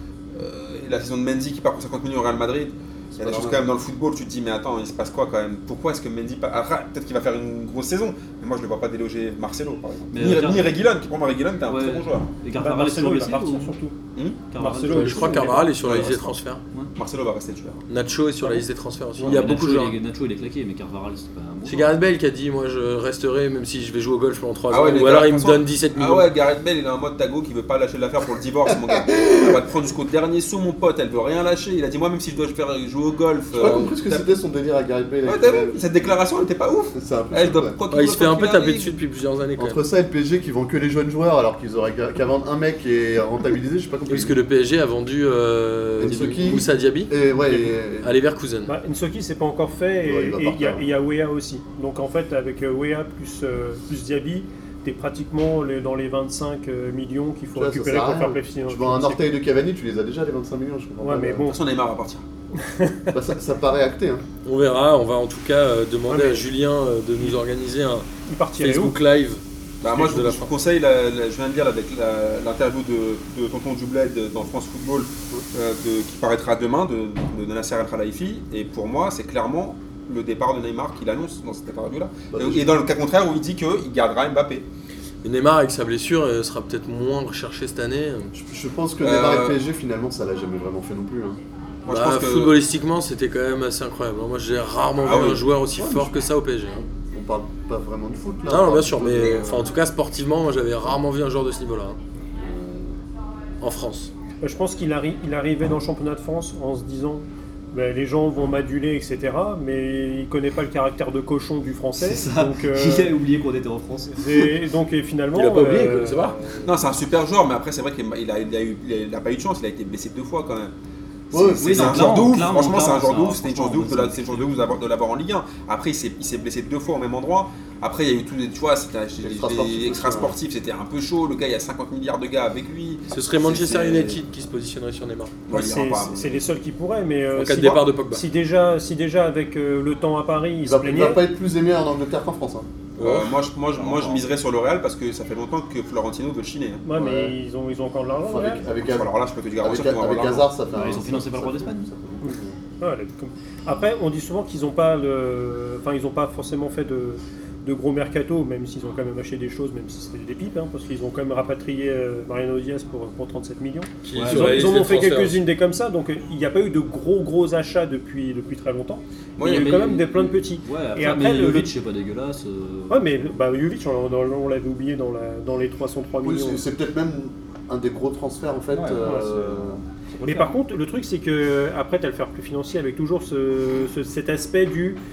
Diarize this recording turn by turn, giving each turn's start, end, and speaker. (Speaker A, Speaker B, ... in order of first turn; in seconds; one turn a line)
Speaker A: 0.3-12.3
Speaker B: 3.2-3.7
Speaker C: 10.1-10.7
Speaker C: 11.7-13.8
Speaker D: 12.6-13.9
Speaker A: 14.2-14.4
Speaker C: 14.5-16.2
Speaker D: 14.6-15.7
Speaker E: 14.9-16.6
Speaker A: 15.8-16.4
Speaker A: 17.0-17.9
Speaker E: 17.9-19.9
Speaker C: 19.2-21.9
Speaker E: 21.6-26.3
Speaker A: 24.7-34.3
Speaker B: 28.7-29.6
Speaker B: 33.5-35.8
Speaker A: 35.2-39.0
Speaker B: 36.9-37.8
Speaker E: 37.9-39.8
Speaker B: 39.6-44.4
Speaker E: 44.1-47.1
Speaker B: 46.0-48.1
Speaker E: 48.0-48.7
Speaker D: 48.7-59.2
Speaker B: 50.0-50.9
Speaker B: 57.5-61.5
Speaker D: 61.0-61.6
Speaker A: 61.5-62.2
Speaker D: 62.6-63.1
Speaker B: 63.1-64.2
Speaker E: 64.5-68.1
Speaker D: 66.1-66.5
Speaker D: 68.3-69.0
Speaker E: 68.6-70.5
Speaker A: 69.8-84.7
Speaker B: 82.3-82.7
Speaker E: 85.2-88.3
Speaker B: 88.3-91.4
Speaker A: 89.0-89.6
Speaker A: 91.8-92.6
Speaker E: 91.9-96.8
Speaker A: 95.0-95.5
Speaker B: 95.8-96.2
Speaker B: 96.7-99.7
Speaker E: 98.5-102.0
Speaker B: 102.4-103.0
Speaker E: 103.6-104.1
Speaker D: 104.4-113.2
Speaker C: 112.0-114.3
Speaker D: 114.1-116.8
Speaker E: 115.3-116.4
Speaker A: 116.6-120.7
Speaker A: 121.3-134.2
Speaker B: 121.3-122.3
Speaker C: 121.6-124.8
Speaker B: 129.2-130.3
Speaker E: 133.1-135.4
Speaker A: 135.5-136.5
Speaker D: 135.5-141.2
Speaker E: 137.3-138.2
Speaker B: 140.6-142.7
Speaker E: 143.0-143.3
Speaker A: 143.0-146.8
Speaker C: 143.8-144.2
Speaker D: 146.8-148.7
Speaker B: 146.9-147.4
Speaker B: 148.2-152.6
Speaker A: 148.8-150.5
Speaker C: 150.7-152.0
Speaker D: 152.2-171.7
Speaker E: 164.1-165.4
Speaker C: 164.1-164.8
Speaker A: 169.4-169.9
Speaker C: 169.4-173.1
Speaker D: 172.9-176.6
Speaker B: 176.2-179.8
Speaker C: 178.7-180.6
Speaker D: 180.2-185.0